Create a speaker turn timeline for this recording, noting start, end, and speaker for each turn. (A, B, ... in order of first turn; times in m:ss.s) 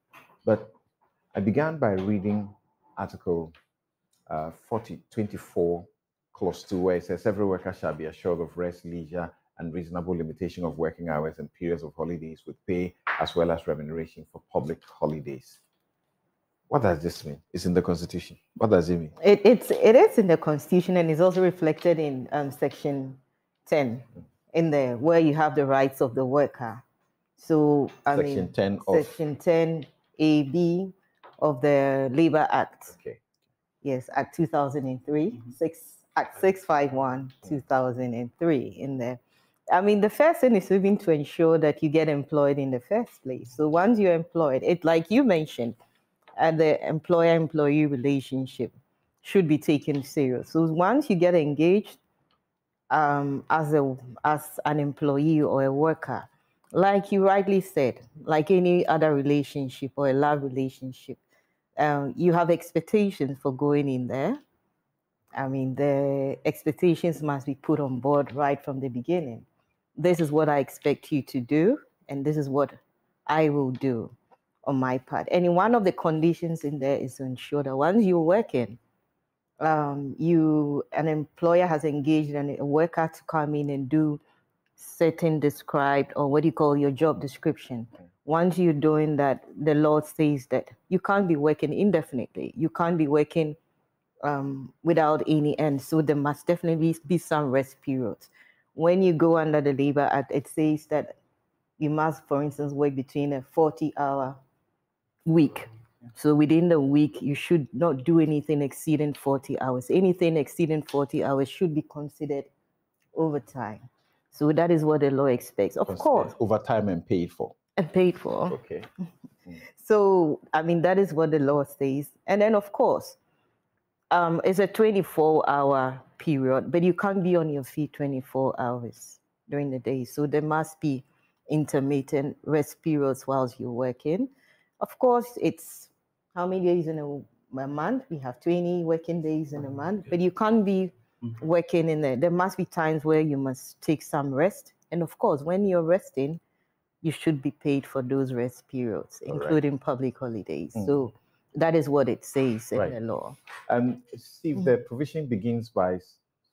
0:00.4-0:00.7 A
0:01.3-0:03.5 A
0:04.3-0:15.6 A
0:16.7-0:19.1 A
0:19.2-0:26.8 B
0:27.4-0:33.0 B
0:28.1-0:29.1 A
0:32.9-0:33.2 A
0:33.8-0:45.8 B
0:46.4-0:52.0 B
0:52.9-1:01.2 B
1:01.8-1:04.4 B
1:05.4-1:18.8 B
1:19.6-1:24.2 B
1:24.8-1:33.6 B
1:34.2-1:41.2 B
1:41.8-1:44.4 B
1:45.3-1:52.5 B
1:53.1-1:56.3 B
1:55.9-1:57.6 A
1:57.8-1:58.6 B
1:58.5-1:58.9 A
1:59.8-2:03.2 B
2:04.1-2:26.4 B
2:27.0-2:33.4 B
2:29.3-2:29.6 A
2:33.7-2:36.2 A